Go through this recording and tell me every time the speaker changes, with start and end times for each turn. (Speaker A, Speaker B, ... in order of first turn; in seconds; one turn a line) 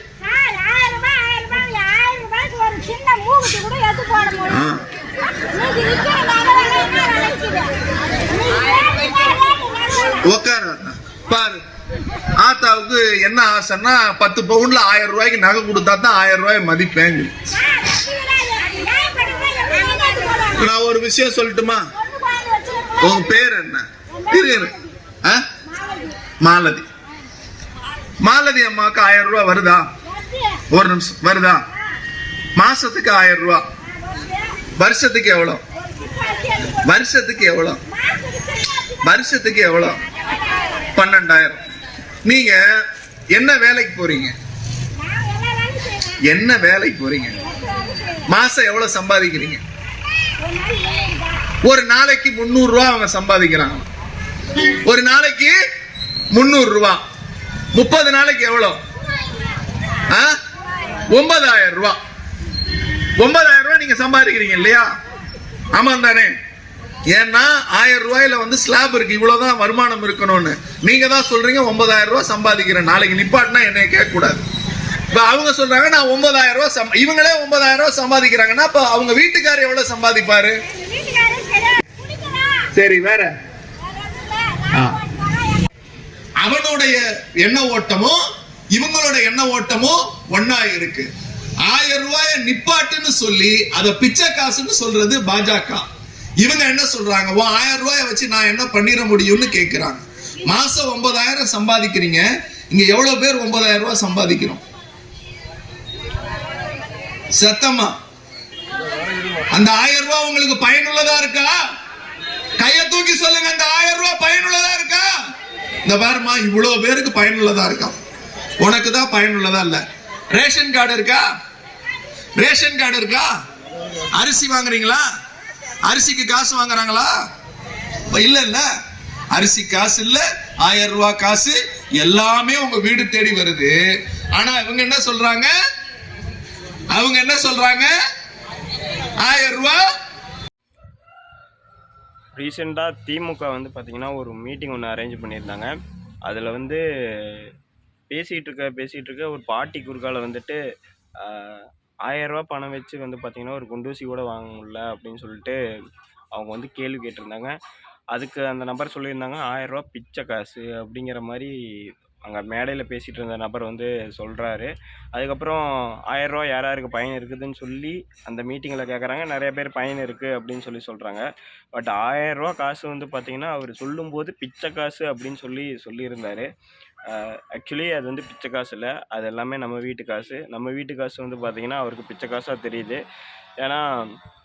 Speaker A: 0.2-4.5
Speaker B: 4.4-4.8
Speaker A: 5.5-7.8
Speaker A: 8.6-10.1
Speaker B: 10.2-11.6
Speaker B: 12.4-17.3
Speaker A: 18.0-20.5
Speaker B: 20.5-21.9
Speaker A: 22.2-23.0
Speaker B: 23.0-25.4
Speaker B: 26.4-26.9
Speaker B: 28.2-29.9
Speaker B: 30.7-31.6
Speaker B: 32.6-33.6
Speaker B: 34.8-35.6
Speaker B: 36.7-37.8
Speaker B: 38.9-40.0
Speaker B: 41.0-41.6
Speaker B: 42.3-42.6
Speaker B: 43.3-44.3
Speaker A: 45.3-46.0
Speaker B: 46.3-47.4
Speaker B: 48.3-49.6
Speaker A: 50.5-51.2
Speaker B: 51.6-53.9
Speaker B: 54.9-55.6
Speaker B: 56.3-57.0
Speaker B: 57.7-58.8
Speaker B: 61.1-62.0
Speaker B: 63.2-64.9
Speaker B: 65.7-66.3
Speaker B: 67.1-74.4
Speaker B: 75.1-80.6
Speaker A: 81.0-82.5
Speaker B: 82.7-83.3
Speaker B: 84.7-85.0
Speaker B: 86.4-88.2
Speaker B: 88.7-91.1
Speaker B: 91.6-95.8
Speaker B: 96.4-104.6
Speaker B: 107.4-107.9
Speaker B: 109.5-111.6
Speaker B: 112.6-115.1
Speaker B: 115.8-118.0
Speaker B: 118.6-119.8
Speaker B: 120.3-121.3
Speaker B: 122.4-123.3
Speaker B: 124.1-125.1
Speaker B: 125.9-127.2
Speaker B: 128.1-128.7
Speaker B: 129.3-133.8
Speaker B: 134.3-135.5
Speaker B: 136.9-137.9
Speaker B: 139.2-139.8
Speaker C: 142.4-147.5
Speaker C: 148.1-150.6
Speaker C: 151.2-155.6
Speaker C: 156.3-157.5
Speaker C: 158.1-176.5
Speaker C: 177.1-183.0
Speaker C: 183.6-184.2